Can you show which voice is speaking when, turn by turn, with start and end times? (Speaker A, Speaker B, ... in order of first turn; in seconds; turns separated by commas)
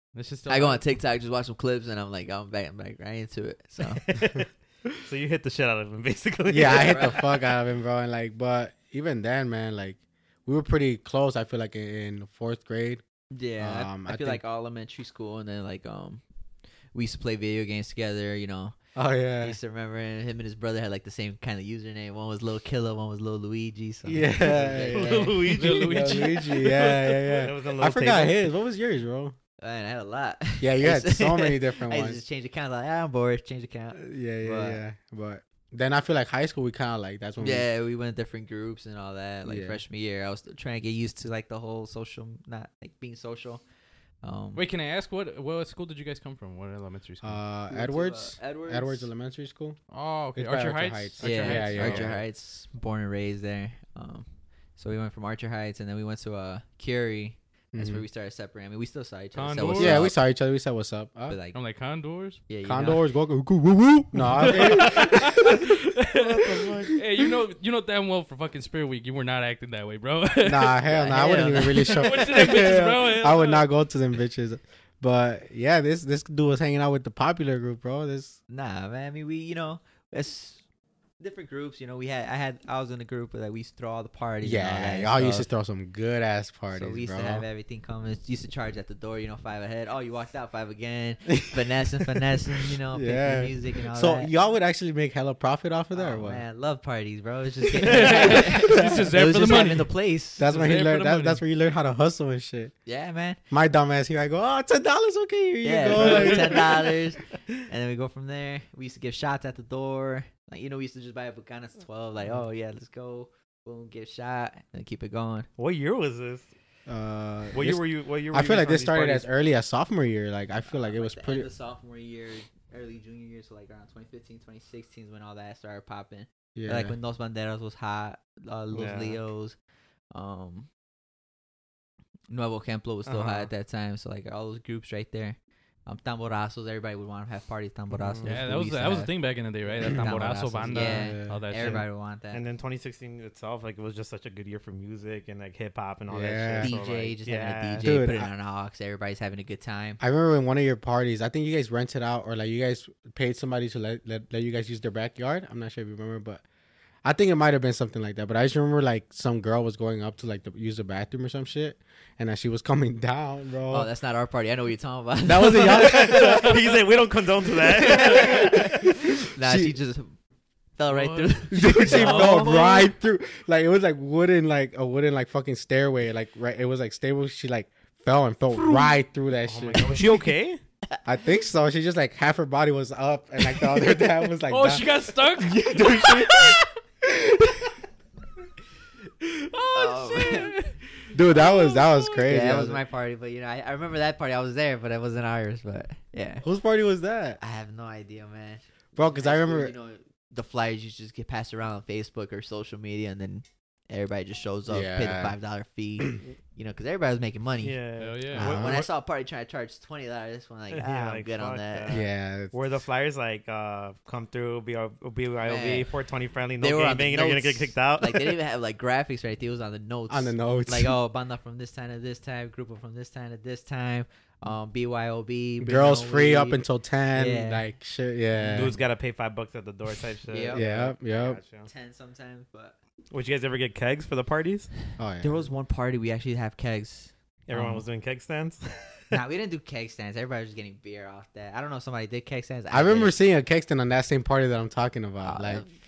Speaker A: 0.1-0.8, Speaker B: 0.5-4.0, Speaker C: 4.0-7.3, Speaker D: 6.5-13.0, Speaker B: 6.6-7.2, Speaker B: 13.3-16.2, Speaker D: 13.6-14.4, Speaker B: 16.9-18.8, Speaker D: 18.9-19.6, Speaker B: 19.4-25.4, Speaker D: 24.1-29.4, Speaker C: 24.9-26.3, Speaker A: 25.5-27.3, Speaker C: 27.4-28.4, Speaker B: 29.6-34.8, Speaker D: 30.6-32.2, Speaker D: 33.9-37.6, Speaker B: 37.4-43.6, Speaker D: 39.4-39.8, Speaker B: 44.2-44.6, Speaker A: 44.5-47.4, Speaker D: 47.2-49.8, Speaker B: 47.7-49.1, Speaker A: 49.9-52.1, Speaker D: 50.3-52.2, Speaker B: 51.2-60.2, Speaker D: 57.7-58.0, Speaker A: 59.4-60.1, Speaker D: 59.7-61.4, Speaker B: 61.3-61.6, Speaker A: 61.5-62.4, Speaker B: 62.5-63.0, Speaker D: 62.6-65.6, Speaker A: 64.4-70.8, Speaker C: 66.1-67.0, Speaker D: 70.4-78.4, Speaker B: 70.8-72.1, Speaker A: 71.8-73.7, Speaker B: 78.5-80.6, Speaker B: 81.2-85.5, Speaker D: 84.4-87.4, Speaker B: 86.7-94.3, Speaker D: 91.3-91.6, Speaker D: 92.9-96.4, Speaker B: 95.9-100.5, Speaker A: 97.8-99.9, Speaker D: 98.2-99.1, Speaker D: 100.4-102.7, Speaker A: 100.4-101.4, Speaker B: 102.8-103.4, Speaker D: 103.5-106.7, Speaker B: 105.6-115.5, Speaker A: 106.0-106.4, Speaker C: 115.6-116.5, Speaker D: 116.9-121.5, Speaker C: 117.5-119.3, Speaker B: 120.7-129.6, Speaker D: 126.5-127.0, Speaker C: 128.7-129.2, Speaker B: 130.1-130.7, Speaker B: 132.3-139.1, Speaker C: 133.1-133.5, Speaker C: 137.9-138.3, Speaker A: 138.2-141.8, Speaker B: 139.8-142.4, Speaker D: 140.7-141.8, Speaker C: 142.3-147.9, Speaker D: 146.1-146.8, Speaker B: 146.6-150.0, Speaker D: 147.8-148.3, Speaker D: 150.0-156.4, Speaker D: 157.0-163.9, Speaker B: 163.7-166.4, Speaker D: 165.2-166.5, Speaker C: 165.7-168.6, Speaker B: 167.8-168.7, Speaker D: 168.0-169.7, Speaker B: 169.3-170.2, Speaker B: 170.8-172.9, Speaker A: 170.9-171.7, Speaker D: 171.5-180.0, Speaker C: 171.9-172.4, Speaker C: 179.4-180.6, Speaker D: 181.1-184.8, Speaker A: 184.5-186.6, Speaker D: 185.4-187.7, Speaker A: 189.4-190.8, Speaker B: 189.7-190.5, Speaker D: 191.1-192.8, Speaker A: 191.3-192.2, Speaker B: 192.2-196.4, Speaker D: 196.4-197.4, Speaker B: 197.4-212.0, Speaker D: 198.9-199.7, Speaker D: 204.7-205.3, Speaker C: 207.6-208.9, Speaker A: 208.0-208.4, Speaker D: 208.3-208.8, Speaker C: 210.7-218.3, Speaker D: 211.9-212.5, Speaker B: 215.4-215.9, Speaker B: 216.6-227.7, Speaker D: 220.1-220.9, Speaker D: 225.6-228.8, Speaker C: 228.4-231.7, Speaker B: 230.3-230.7, Speaker D: 230.5-231.4, Speaker B: 231.6-232.8, Speaker C: 233.1-234.7, Speaker D: 235.0-235.5, Speaker B: 235.2-237.8, Speaker C: 237.5-238.6, Speaker B: 239.1-243.2, Speaker D: 242.7-245.6, Speaker B: 245.2-245.7